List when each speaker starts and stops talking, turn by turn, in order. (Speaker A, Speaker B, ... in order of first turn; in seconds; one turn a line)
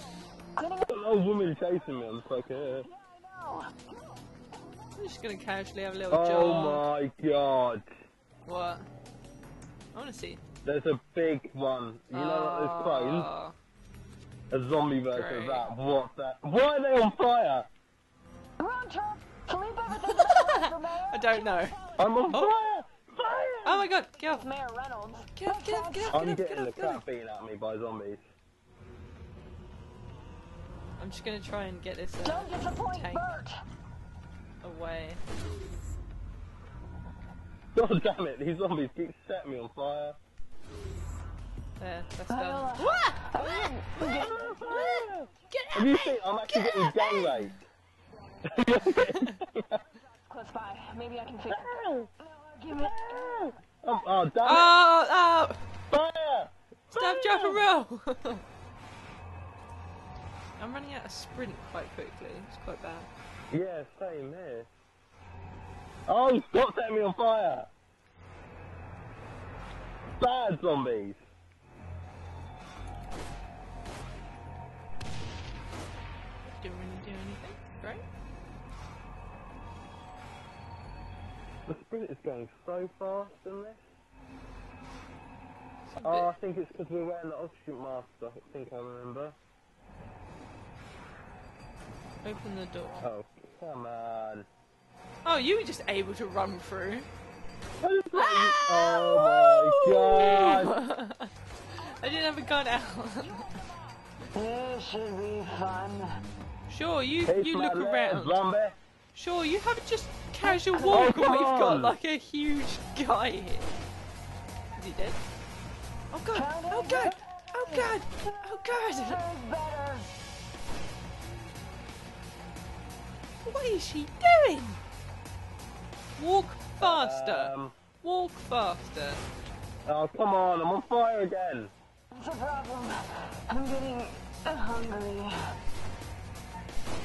Speaker A: 0.6-0.9
Speaker B: 0.8-2.9
Speaker A: 2.8-4.2
Speaker C: 5.0-6.8
Speaker B: 6.1-7.9
Speaker C: 8.5-8.9
Speaker C: 9.9-10.4
Speaker B: 10.6-13.3
Speaker C: 12.1-13.6
Speaker B: 14.5-17.7
Speaker C: 15.1-15.7
Speaker A: 18.6-22.4
Speaker C: 20.1-20.5
Speaker C: 21.1-21.8
Speaker B: 22.0-23.9
Speaker C: 22.3-22.5
Speaker C: 23.6-24.5
Speaker A: 24.1-26.1
Speaker C: 25.4-27.0
Speaker B: 26.1-28.2
Speaker C: 31.0-33.4
Speaker A: 32.2-33.6
Speaker C: 34.6-35.2
Speaker B: 37.8-40.2
Speaker C: 41.8-43.7
Speaker A: 42.3-45.0
Speaker B: 44.0-47.6
Speaker C: 44.7-47.5
Speaker B: 48.5-49.9
Speaker A: 50.2-53.4
Speaker B: 51.5-52.1
Speaker B: 52.7-54.7
Speaker C: 54.5-55.6
Speaker B: 55.9-57.6
Speaker C: 56.9-58.4
Speaker C: 60.6-63.1
Speaker B: 63.5-64.7
Speaker B: 66.1-67.7
Speaker B: 70.2-71.2
Speaker C: 76.5-78.0
Speaker B: 81.7-83.8
Speaker C: 85.9-86.3
Speaker B: 86.0-89.4
Speaker C: 92.2-93.1
Speaker B: 93.0-94.5
Speaker C: 95.2-97.1
Speaker B: 97.8-100.7
Speaker C: 98.2-103.5
Speaker A: 103.2-106.2
Speaker C: 106.7-108.4
Speaker B: 107.3-108.8
Speaker C: 109.1-113.8
Speaker A: 110.4-111.1
Speaker B: 110.9-112.0
Speaker C: 114.8-115.2
Speaker C: 116.1-119.2
Speaker A: 116.3-120.1
Speaker C: 123.4-124.8
Speaker C: 126.2-129.2
Speaker B: 126.8-127.7
Speaker B: 129.8-131.7
Speaker A: 132.1-135.3